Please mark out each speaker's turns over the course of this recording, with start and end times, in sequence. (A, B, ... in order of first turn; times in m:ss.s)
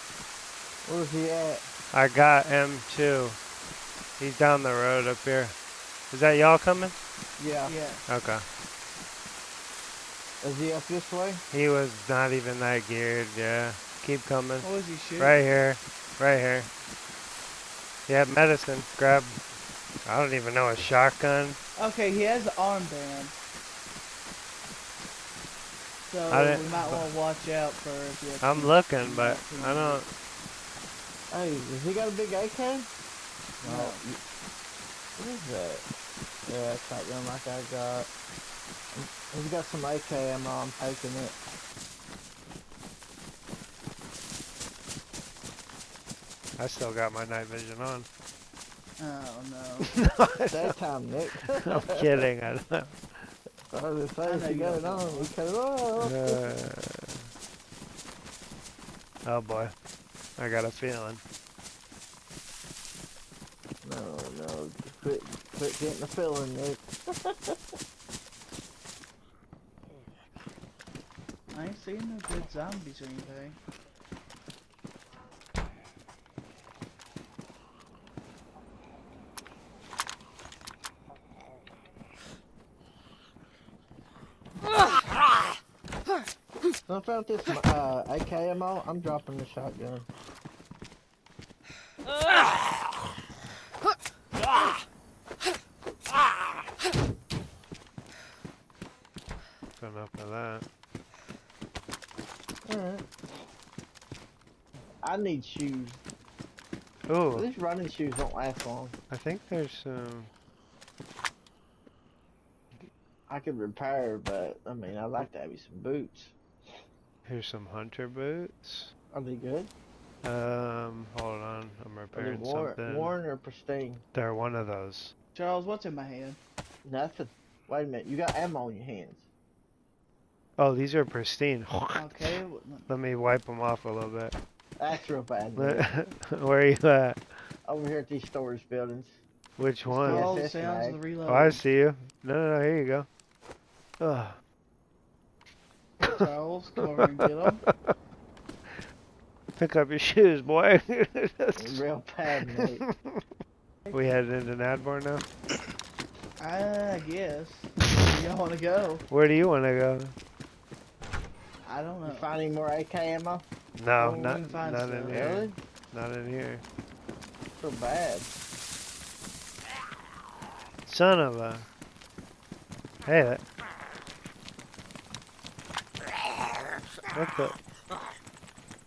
0:00.8-0:01.6 A
0:01.9-0:03.4 B
0:04.2-0:05.6 B
0:06.1-0:07.0 B
0:07.4-0:07.7 A
0:07.7-0:08.0 C
0:08.1-0:08.4 B
0:10.4-0:11.4 A
0:11.5-0:14.7 B
0:14.6-0:15.5 C
0:15.2-0:16.7 B
0:18.1-0:19.4 B
0:20.1-0:21.6 B
0:21.8-0:23.4 C
0:26.1-0:30.0 C
0:26.3-0:27.1 B
0:28.4-0:30.1 B
0:31.3-0:32.9 A
0:33.6-0:34.0 C
0:33.6-0:34.2 A
0:35.2-0:35.8 A
0:36.5-0:38.1 A
0:38.9-0:41.4 A
0:46.6-0:48.1 B
0:49.0-0:49.9 C
0:49.8-0:50.7 B
0:50.5-0:52.1 A
0:51.5-0:53.3 B
0:53.7-0:56.4 A
0:54.2-0:55.3 C
0:56.0-0:57.3 B
0:59.2-0:59.7 B
1:00.4-1:01.2 B
1:03.8-1:07.6 A
1:11.5-1:13.6 C
1:26.9-1:30.1 A
1:39.8-1:40.6 B
1:42.6-1:43.1 A
1:45.0-1:46.0 A
1:47.1-1:47.5 B
1:47.3-1:49.0 A
1:49.1-1:50.3 B
1:53.3-1:56.3 A
1:57.3-1:58.9 B
1:59.1-1:59.7 A
2:00.2-2:03.2 B
2:02.1-2:04.0 A
2:04.1-2:05.1 B
2:05.4-2:06.4 C
2:06.8-2:09.3 A
2:10.6-2:12.2 B
2:11.9-2:12.9 C
2:12.9-2:14.4 B
2:14.8-2:15.8 A
2:15.6-2:17.5 B
2:17.7-2:19.2 A
2:19.6-2:20.4 B
2:19.9-2:21.0 A
2:20.0-2:21.6 C
2:21.3-2:23.1 B
2:24.0-2:24.4 B
2:26.0-2:27.6 C
2:29.6-2:31.8 B
2:31.6-2:32.8 A
2:32.5-2:33.2 B
2:33.9-2:35.2 B
2:36.4-2:39.0 C
2:39.1-2:40.2 B
2:41.6-2:42.4 C
2:42.0-2:43.4 A
2:43.8-2:46.6 B
2:44.0-2:45.4 C
2:45.1-2:45.6 A
2:47.6-2:48.3 A
2:50.9-2:51.7 B
2:53.0-2:53.4 B
2:57.1-2:57.6 B